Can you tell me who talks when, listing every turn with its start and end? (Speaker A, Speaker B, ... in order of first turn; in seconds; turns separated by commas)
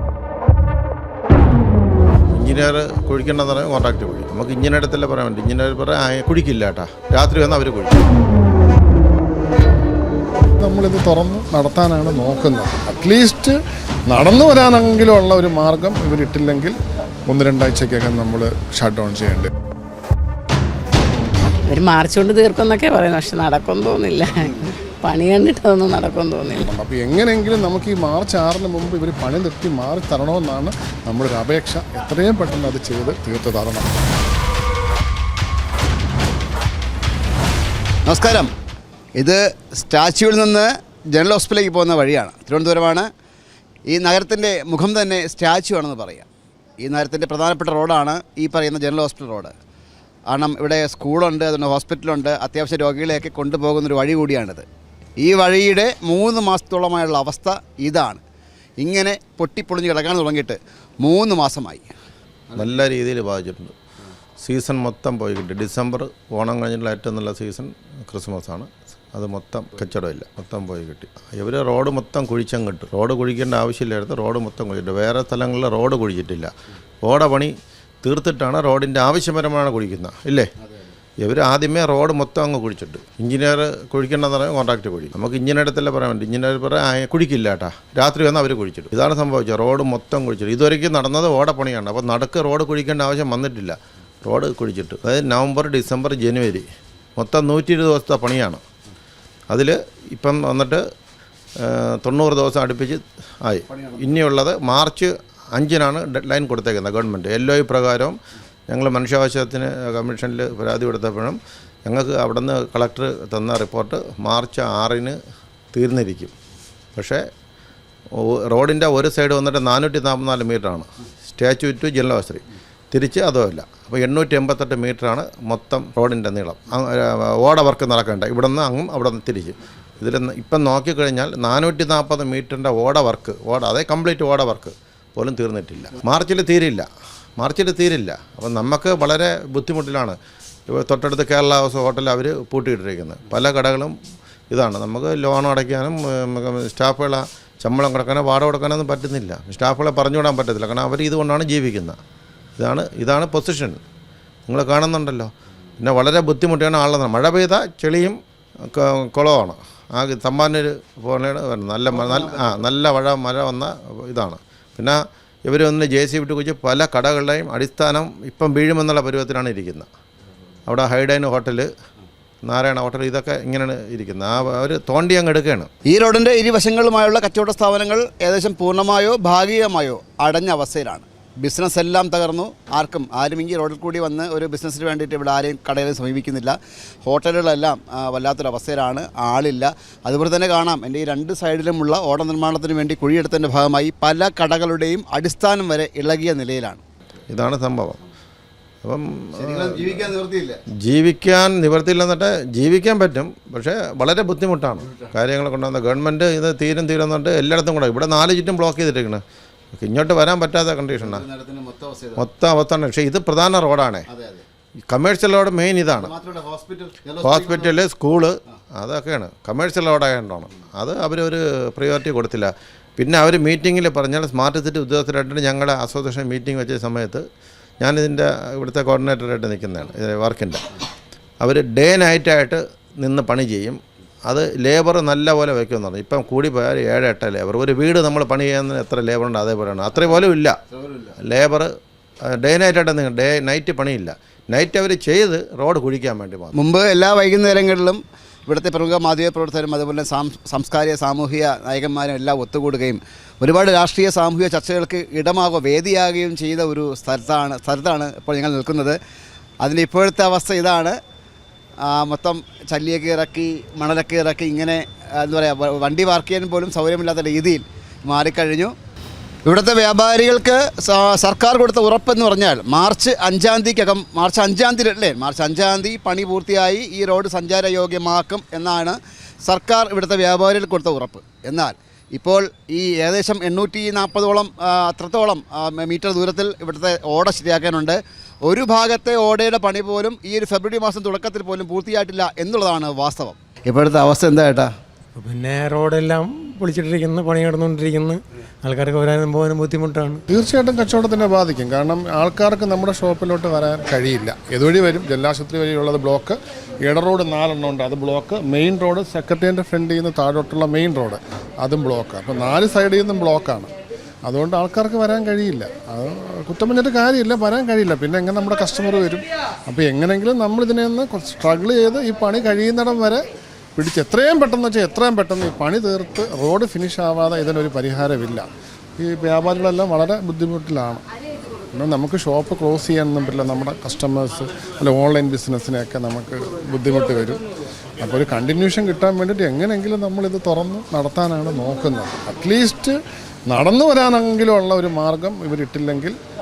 Speaker A: 2.3-8.1, Speaker B: 10.6-16.8, Speaker B: 17.3-19.5, Speaker C: 21.7-26.7, Speaker B: 26.6-33.9, Speaker D: 38.1-38.5, Speaker D: 39.2-43.1, Speaker D: 43.9-46.3, Speaker D: 46.8-49.5, Speaker D: 50.3-54.7, Speaker D: 55.2-58.2, Speaker D: 58.8-61.9, Speaker A: 62.6-63.8, Speaker A: 64.4-76.5, Speaker A: 77.0-80.5, Speaker A: 81.2-98.6, Speaker A: 99.5-100.8, Speaker A: 101.6-108.2, Speaker A: 108.7-115.2, Speaker A: 115.7-116.3, Speaker A: 117.0-117.2, Speaker A: 118.2-136.9, Speaker A: 137.4-144.0, Speaker A: 144.5-152.0, Speaker A: 152.6-153.8, Speaker A: 154.5-169.9, Speaker D: 161.9-162.7, Speaker A: 170.7-171.7, Speaker A: 172.4-175.7, Speaker D: 175.9-196.8, Speaker A: 197.3-198.0, Speaker A: 198.8-200.1, Speaker D: 199.4-200.6, Speaker A: 200.8-209.2, Speaker A: 209.8-211.2, Speaker D: 211.0-212.2, Speaker A: 212.2-214.1, Speaker D: 214.1-214.4, Speaker A: 214.9-216.1, Speaker D: 216.0-217.7, Speaker A: 217.2-227.2, Speaker A: 227.8-230.6, Speaker A: 231.4-240.6, Speaker D: 240.7-241.2, Speaker A: 241.2-241.7, Speaker A: 242.3-246.6, Speaker D: 246.6-259.0, Speaker D: 259.6-261.0, Speaker D: 261.8-268.7, Speaker D: 269.5-294.7, Speaker E: 295.2-300.2, Speaker B: 300.3-313.7, Speaker B: 314.3-323.2, Speaker B: 323.8-328.5, Speaker B: 329.0-331.0, Speaker B: 331.7-337.4, Speaker B: 338.0-346.2